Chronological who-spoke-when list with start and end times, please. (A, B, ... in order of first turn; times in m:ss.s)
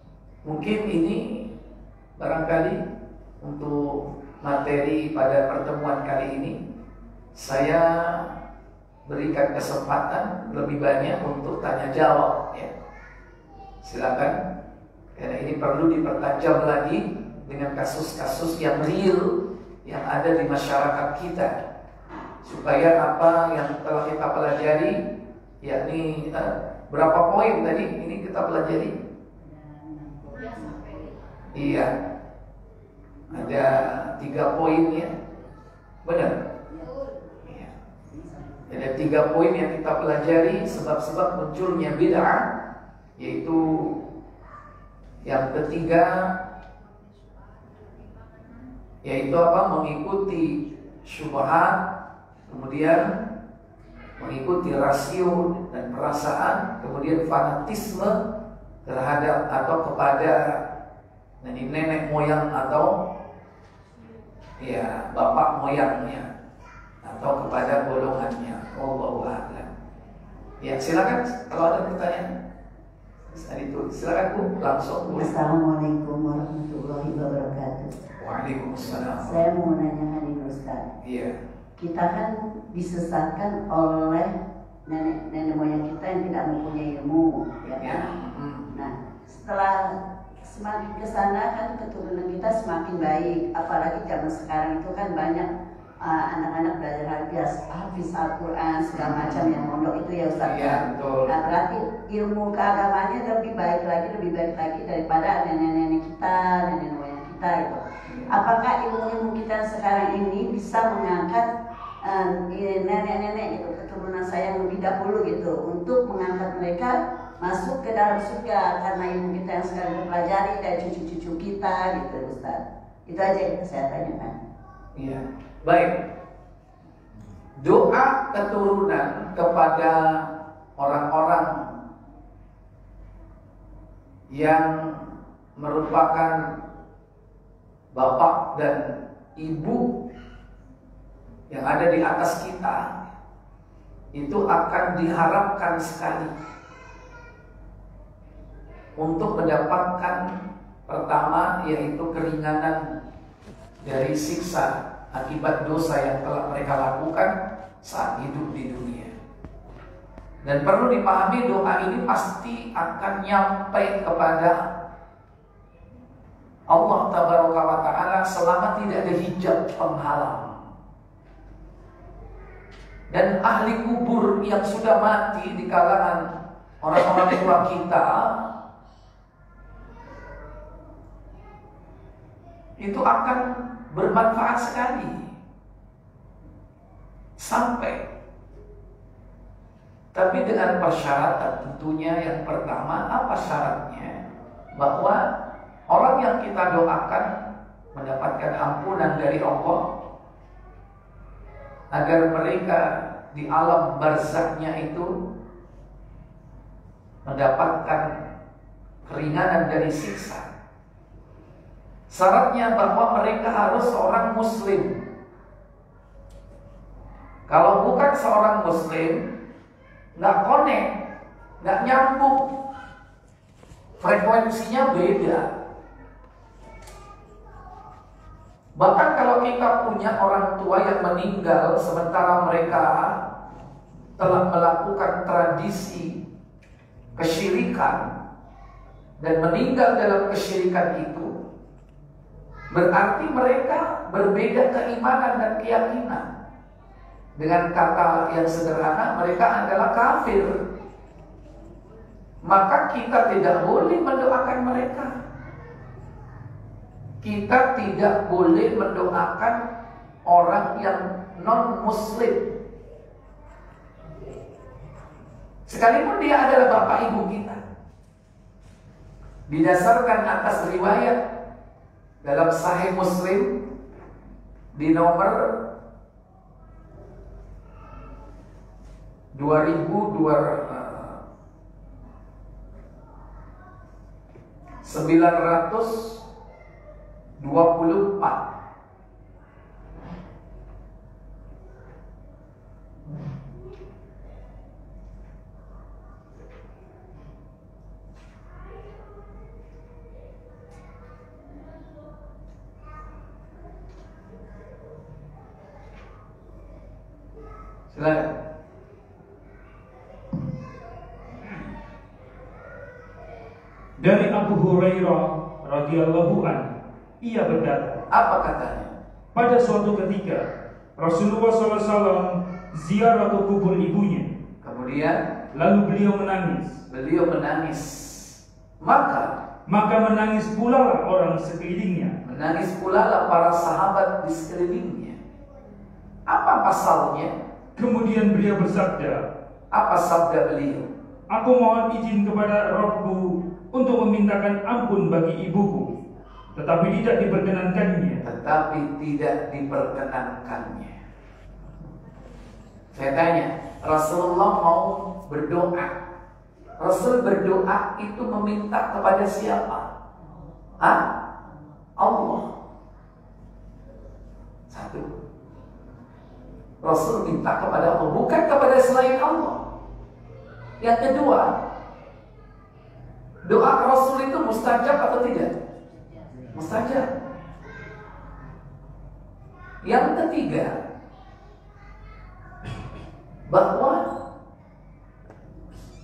0:00.4-0:01.5 A
0:02.2-0:02.8 A
0:03.4-0:06.6 A
0:07.4-0:08.3 A
0:09.1-0:12.7 A
0:13.8-0:14.4 A
0:15.2-0:21.6 A
0:22.4-0:25.0 A
0:25.6-0:28.9 A
0:29.5-0:31.1 B
0:31.6-0:31.9 A
0:33.3-0:35.1 A
0:36.0-0:36.4 A
0:38.7-0:42.4 A
0:43.2-0:44.0 A
0:45.2-0:46.3 A
0:49.0-0:51.8 A
0:52.5-0:53.1 A
0:54.2-0:58.2 A
0:58.9-1:00.6 A
1:01.4-1:03.0 A
1:04.6-1:06.3 A
1:07.0-1:09.7 A
1:10.6-1:12.3 A
1:13.3-1:15.4 A
1:15.2-1:18.0 B
1:18.2-1:19.4 A
1:19.0-1:20.9 B
1:21.0-1:21.4 A
1:21.8-1:24.4 B
1:24.9-1:28.1 B
1:27.6-1:28.7 A
1:28.7-1:35.5 B
1:36.0-1:51.5 B
1:38.9-1:39.4 A
1:40.4-1:41.4 A
1:48.1-1:48.4 A
1:52.0-2:04.3 B
2:05.0-2:05.9 A
2:07.6-2:10.2 A
2:10.8-2:11.5 A
2:14.3-2:16.4 A
2:17.9-2:18.8 A
2:19.4-2:19.8 A
2:21.5-2:22.8 A
2:24.1-2:26.3 A
2:29.0-2:30.2 A
2:30.9-2:32.8 A
2:33.8-2:39.1 A
2:40.4-2:44.6 A
2:46.7-2:50.6 A
2:53.1-2:56.2 A
2:56.8-2:58.4 A
3:02.8-3:05.3 A
3:07.4-3:08.0 A
3:10.1-3:14.2 A
3:14.7-3:15.3 A
3:15.9-3:17.3 A
3:17.9-3:19.8 A
3:21.9-3:25.1 A
3:27.2-3:28.1 A
3:29.0-3:30.5 A
3:32.1-3:35.0 A
3:37.5-3:39.2 A
3:40.2-3:40.9 A
3:41.6-3:42.5 A
3:44.0-3:45.5 A
3:48.8-3:53.2 A
3:54.2-3:56.2 A
3:57.2-3:58.1 A
3:59.2-4:01.4 A
4:02.7-4:06.3 A
4:07.4-4:10.6 A
4:12.4-4:15.1 A
4:17.2-4:19.6 A
4:20.3-4:22.4 A
4:25.7-4:27.6 A
4:29.5-4:31.2 A
4:32.2-4:33.6 A
4:34.7-4:35.6 A
4:39.3-4:41.2 A
4:44.8-4:46.2 A
4:47.4-4:48.4 A
5:07.9-5:08.3 A
5:14.0-5:18.0 C
5:18.1-5:18.9 A
5:19.3-5:20.4 C
5:21.0-5:24.3 C
5:24.6-5:25.3 A
5:25.5-5:26.7 C
5:26.9-5:29.4 A
5:29.7-5:32.1 C
5:32.2-5:35.2 A
5:36.3-5:37.3 A
5:37.8-5:39.2 C
5:39.7-5:40.9 A
5:41.3-5:45.9 C
5:46.5-5:48.2 C
5:48.2-5:51.0 A
5:52.9-5:55.9 A
5:56.8-5:59.9 A
6:00.8-6:01.1 A
6:02.0-6:02.5 A
6:04.7-6:05.2 A
6:06.8-6:09.6 A
6:10.8-6:11.5 A
6:13.4-6:15.5 A
6:16.5-6:17.1 A
6:19.8-6:20.7 A
6:23.5-6:24.1 A